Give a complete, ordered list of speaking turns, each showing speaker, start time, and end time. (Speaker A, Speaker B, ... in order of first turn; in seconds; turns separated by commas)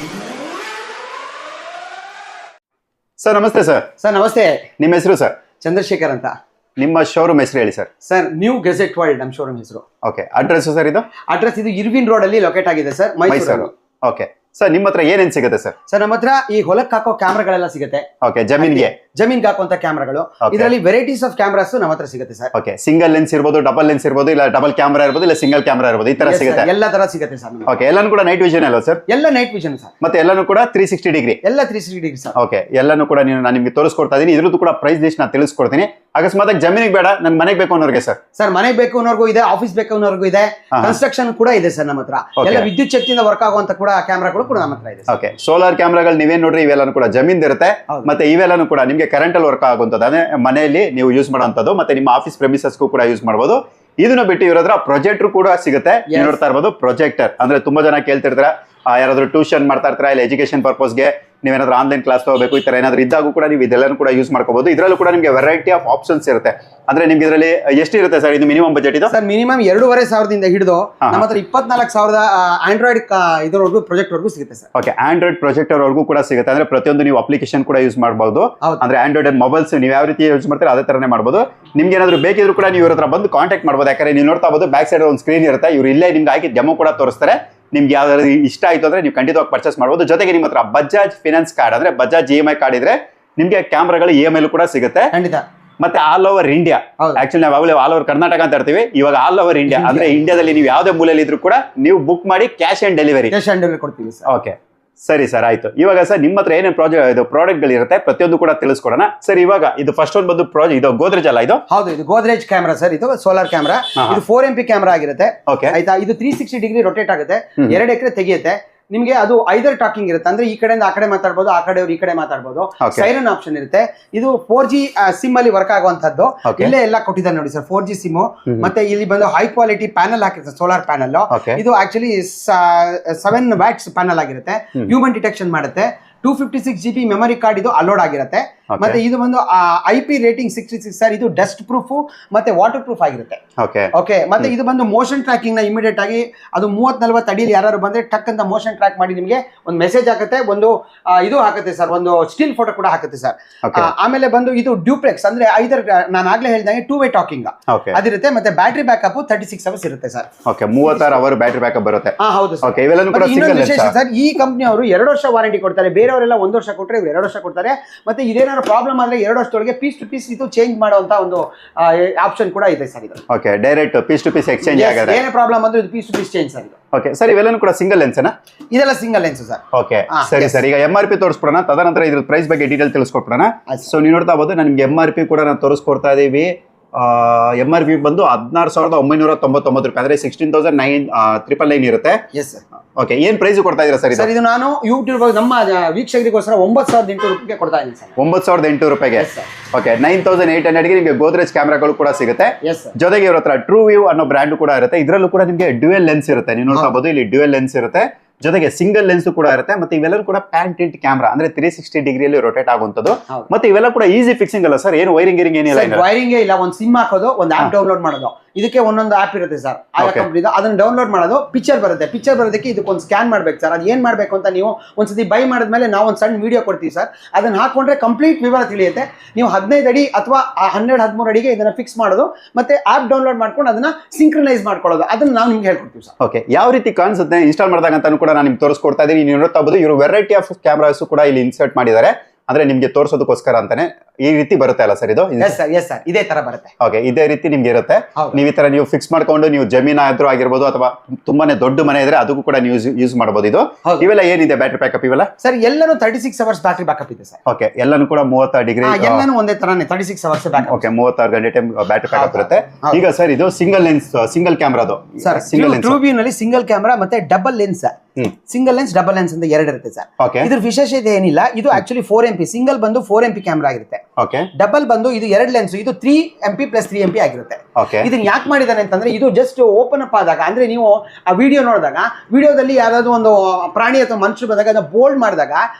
Speaker A: 3.2-3.9, Speaker B: 4.0-4.7, Speaker A: 4.8-5.3, Speaker B: 5.6-6.3, Speaker A: 6.8-7.9, Speaker B: 8.0-9.8, Speaker A: 10.0-11.1, Speaker B: 11.3-13.7, Speaker A: 13.3-15.7, Speaker B: 15.9-18.1, Speaker A: 18.2-18.9, Speaker B: 18.6-22.5, Speaker A: 20.4-20.7, Speaker A: 22.5-26.7, Speaker B: 26.2-27.7, Speaker A: 27.7-29.0, Speaker B: 29.1-29.9, Speaker A: 30.0-31.4, Speaker B: 31.4-32.4, Speaker A: 32.4-38.2, Speaker B: 38.4-45.1, Speaker A: 40.7-41.0, Speaker A: 42.4-42.7, Speaker A: 45.1-69.1, Speaker B: 56.1-56.4, Speaker B: 69.1-74.7, Speaker A: 74.8-95.1, Speaker B: 95.1-95.4, Speaker A: 95.8-103.3, Speaker B: 99.7-100.1, Speaker B: 103.3-104.3, Speaker A: 104.3-111.6, Speaker B: 111.7-143.4, Speaker A: 115.5-115.8, Speaker A: 122.8-123.1, Speaker A: 126.5-126.7, Speaker A: 131.3-131.6, Speaker A: 138.7-139.0, Speaker A: 143.6-143.9, Speaker B: 143.9-160.3, Speaker A: 153.6-153.9, Speaker A: 157.7-158.0, Speaker A: 160.5-163.9, Speaker B: 160.9-161.2, Speaker B: 162.2-173.2, Speaker A: 173.3-175.2, Speaker B: 174.6-176.8, Speaker A: 176.9-178.3, Speaker B: 178.7-180.6, Speaker A: 179.7-192.2, Speaker B: 192.3-192.6, Speaker A: 193.0-194.3, Speaker B: 194.1-198.2, Speaker A: 198.2-216.0, Speaker B: 199.2-199.5, Speaker B: 202.6-202.9, Speaker B: 215.7-236.1, Speaker A: 220.0-220.3, Speaker A: 236.2-245.6, Speaker B: 245.4-246.7, Speaker A: 246.8-255.3, Speaker B: 255.4-257.4, Speaker A: 257.5-259.3, Speaker B: 258.8-260.9, Speaker A: 260.6-266.0, Speaker B: 262.1-263.0, Speaker B: 265.2-274.0, Speaker A: 270.2-270.5, Speaker A: 274.2-274.5, Speaker B: 274.6-285.6, Speaker A: 277.8-278.1